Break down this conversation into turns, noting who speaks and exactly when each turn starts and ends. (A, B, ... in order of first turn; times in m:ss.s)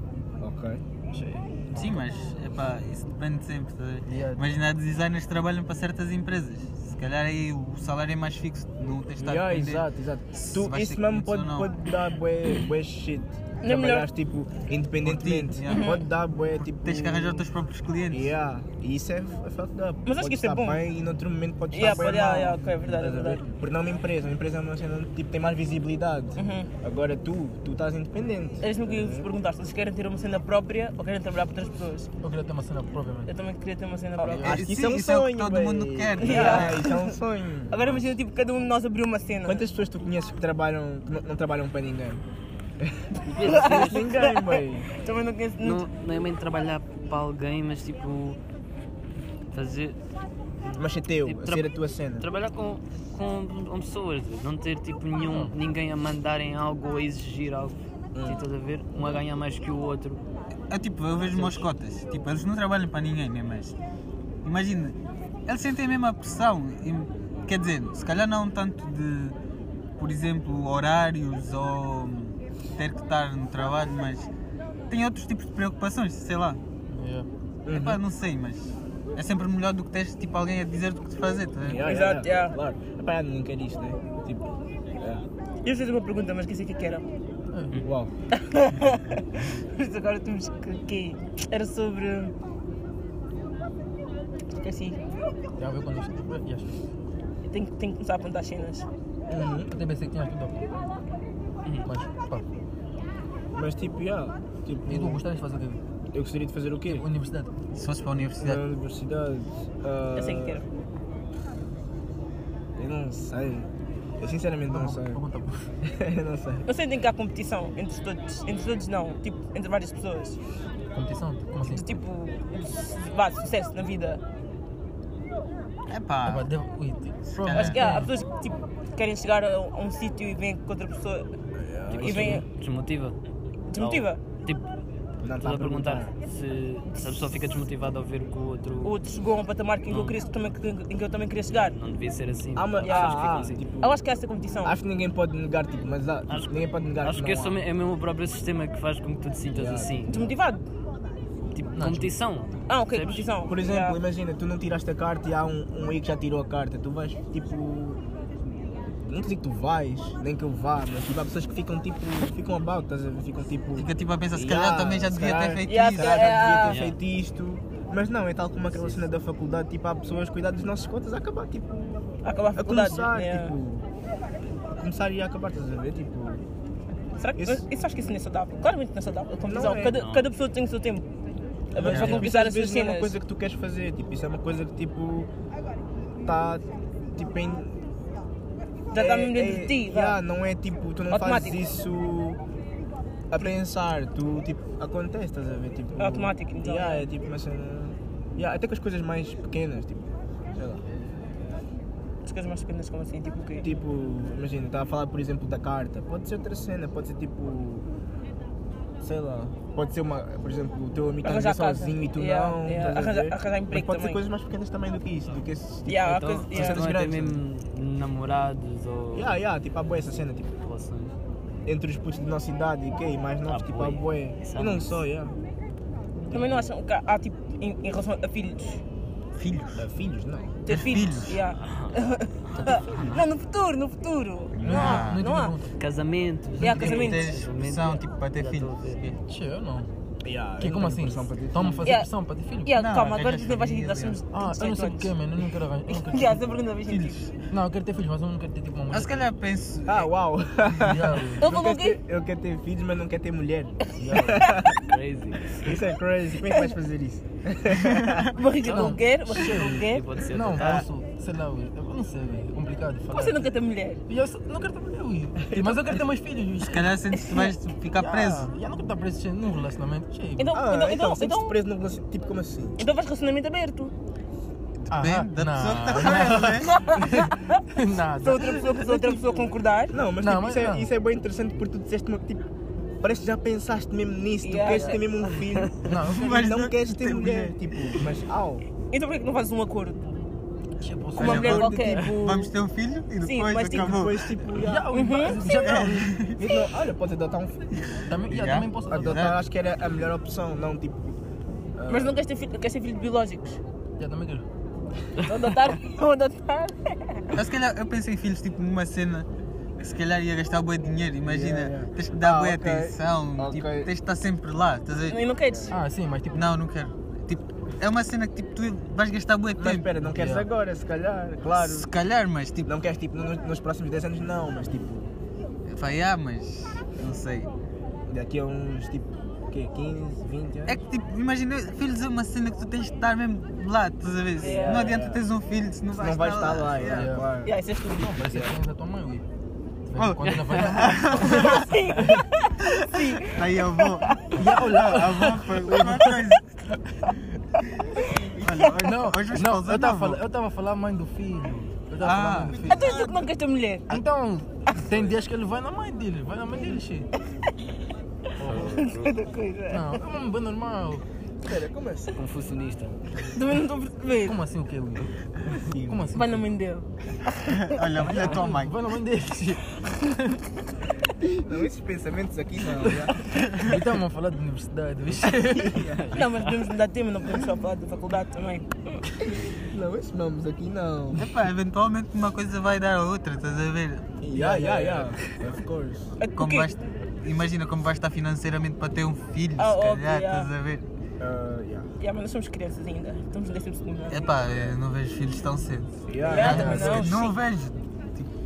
0:00.4-0:00.8 A
0:01.2-0:02.0 B
0:01.7-0:11.7 C
0:04.0-0:04.6 B
0:09.2-0:17.5 A
0:13.6-0:14.1 D
0:15.0-0:16.0 C
0:15.7-0:16.0 D
0:16.7-0:18.3 C
0:18.1-0:29.3 A
0:20.1-0:20.8 D
0:21.7-0:23.4 D
0:26.4-0:26.7 D
0:28.6-0:32.1 D
0:32.2-0:33.3 B
0:33.3-0:34.6 D
0:34.2-0:34.6 B
0:34.3-0:38.1 A
0:34.4-0:36.8 C
0:36.2-0:37.1 D
0:37.7-0:39.6 D
0:39.4-0:42.2 A
0:42.8-0:44.9 A
0:43.2-0:44.0 E
0:43.4-0:44.5 D
0:45.0-0:45.9 D
0:45.6-0:48.4 E
0:49.5-0:50.0 E
0:50.6-0:52.3 A
0:51.2-0:51.7 E
0:52.2-1:00.2 E
0:55.2-0:55.6 B
0:58.2-0:58.4 A
1:00.7-1:03.8 C
1:04.4-1:09.4 C
1:10.0-1:14.3 C
1:14.9-1:16.6 C
1:16.9-1:17.3 B
1:17.7-1:18.0 A
1:17.7-1:21.8 C
1:21.6-1:25.2 A
1:21.8-1:22.6 D
1:25.6-1:27.0 D
1:27.8-1:28.1 A
1:28.3-1:32.3 D
1:34.6-1:35.0 D
1:35.6-1:36.8 B
1:37.5-1:38.9 D
1:39.3-1:39.7 A
1:39.7-1:40.7 B
1:41.8-1:42.4 B
1:43.6-1:45.2 A
1:44.9-1:45.8 B
1:46.1-1:47.0 A
1:46.9-1:47.5 B
1:47.7-1:48.6 C
1:48.4-1:50.6 A
1:50.2-1:50.6 D
1:52.8-1:55.2 A
1:54.7-1:55.7 B
1:55.8-1:56.7 A
1:56.7-2:00.4 D
2:00.9-2:02.0 B
2:01.7-2:04.2 D
2:05.9-2:06.5 C
2:06.2-2:08.1 B
2:07.3-2:07.9 C
2:07.5-2:11.3 D
2:11.6-2:12.4 A
2:11.9-2:13.2 E
2:12.0-2:12.4 D
2:13.7-2:14.2 D
2:13.7-2:14.6 E
2:15.2-2:16.1 A
2:15.4-2:19.0 E
2:18.8-2:21.8 D
2:19.9-2:20.2 E
2:21.7-2:23.6 E
2:22.6-2:24.0 A
2:22.8-2:24.8 D
2:24.6-2:27.6 A
2:26.3-2:30.3 E
2:29.5-2:30.1 A
2:30.1-2:30.6 D
2:31.5-2:33.3 E
2:31.8-2:32.1 B
2:32.7-2:34.0 D
2:33.5-2:38.0 A
2:39.0-2:52.0 A
2:43.8-2:46.2 C
2:45.7-2:46.8 D
2:46.6-2:47.0 E
2:52.2-2:53.5 D
2:52.6-2:53.9 A
2:54.7-2:56.4 A
2:57.2-3:01.1 D
2:57.4-2:57.6 A
2:59.4-3:00.0 A
2:59.9-3:00.3 E
3:01.7-3:03.1 D
3:01.8-3:05.3 A
3:06.2-3:07.8 A
3:08.9-3:10.2 D
3:09.0-3:12.4 A
3:11.1-3:11.6 D
3:13.3-3:20.8 A
3:16.0-3:17.1 D
3:22.3-3:23.7 D
3:23.6-3:27.9 A
3:29.0-3:37.4 A
3:31.2-3:34.2 D
3:35.9-3:36.8 D
3:36.0-3:39.4 E
3:39.1-3:40.5 A
3:40.6-3:41.2 E
3:41.7-3:45.4 A
3:43.5-3:45.0 E
3:46.3-3:48.8 D
3:49.4-3:49.8 C
3:49.8-3:50.6 A
3:50.6-3:55.6 D
3:50.7-3:51.4 C
3:51.6-3:52.0 E
3:52.6-3:53.2 E
3:54.5-3:55.2 C
3:54.6-3:55.8 B
3:55.8-3:59.1 E
3:56.6-3:57.4 D
3:56.6-3:59.2 C
3:59.3-3:59.9 B
4:00.2-4:01.9 A
4:00.6-4:02.7 B
4:02.6-4:05.1 D
4:02.8-4:04.2 C
4:04.3-4:06.6 B
4:05.9-4:07.3 D
4:07.5-4:09.3 B
4:08.9-4:10.1 C
4:09.9-4:14.8 A
4:10.8-4:11.4 B
4:11.4-4:12.0 D
4:14.0-4:14.5 B
4:14.8-4:15.7 E
4:15.6-4:18.4 A
4:18.2-4:20.0 D
4:18.6-4:23.5 B
4:19.4-4:20.8 E
4:20.6-4:20.8 C
4:23.1-4:24.0 D
4:24.1-4:27.0 B
4:25.5-4:25.9 A
4:26.6-4:28.5 C
4:27.2-4:27.5 D
4:28.0-4:30.6 B
4:30.4-4:31.6 D
4:30.5-4:32.8 A
4:32.8-4:33.9 D
4:34.9-4:36.8 C
4:34.9-4:39.1 B
4:36.6-4:37.6 D
4:38.2-4:40.0 D
4:39.9-4:42.4 A
4:40.2-4:40.9 B
4:43.0-4:48.6 A
4:44.4-4:45.7 D
4:45.8-4:46.4 B
4:46.0-4:48.0 C
4:48.9-4:50.0 D
4:50.8-4:51.7 B
4:51.2-4:52.2 D
4:51.2-4:52.5 A
4:51.2-4:54.4 C
4:53.2-4:54.1 D
4:53.7-4:55.3 A
4:54.5-4:56.3 B
4:54.9-4:55.6 D
4:55.6-4:56.4 C
4:56.3-4:57.8 A
4:57.8-4:59.4 C
4:58.0-4:59.3 B
4:58.9-5:01.2 A
5:01.8-5:02.2 A
5:01.9-5:03.6 D
5:04.0-5:04.4 B
5:05.2-5:07.4 D
5:07.3-5:15.2 C
5:11.3-5:13.9 A
5:15.1-5:15.8 D
5:15.7-5:16.5 B
5:16.3-5:19.9 C
5:19.6-5:21.9 A
5:20.0-5:20.5 B
5:21.6-5:22.7 C
5:22.6-5:25.1 A
5:25.7-5:27.5 C
5:28.1-5:30.8 A
5:30.7-5:37.2 C
5:34.4-5:35.0 D
5:34.4-5:35.2 A
5:36.0-5:37.6 A
5:36.9-5:37.3 B
5:37.4-5:38.2 D
5:37.9-5:39.2 B
5:38.3-5:38.6 A
5:39.9-5:42.2 B
5:40.0-5:41.7 C
5:41.2-5:44.4 D
5:42.6-5:46.5 C
5:44.3-5:46.2 B
5:48.4-5:50.2 C
5:48.8-5:52.9 B
5:52.0-5:52.9 C
5:52.5-5:53.3 A
5:52.6-5:54.0 D
5:53.9-5:57.1 B
5:58.4-5:58.9 B
5:58.4-5:59.2 E
5:58.6-6:00.0 D
5:59.7-6:01.0 B
6:01.4-6:02.2 A
6:02.2-6:03.0 E
6:03.3-6:04.4 D
6:04.2-6:06.5 B
6:05.5-6:06.2 A
6:06.2-6:08.0 D
6:07.5-6:08.8 C
6:08.1-6:10.4 B
6:11.4-6:13.3 A
6:13.4-6:16.0 B
6:15.4-6:16.2 A
6:15.9-6:16.7 E
6:16.1-6:19.4 D
6:19.6-6:21.3 A
6:21.1-6:24.2 C
6:24.2-6:26.2 A
6:24.4-6:25.0 B
6:26.2-6:26.7 D
6:26.4-6:30.8 C
6:29.6-6:30.5 D
6:31.2-6:31.9 A
6:32.0-6:34.4 D
6:34.1-6:38.3 C
6:36.1-6:37.1 A
6:36.2-6:37.4 D
6:36.4-6:37.0 B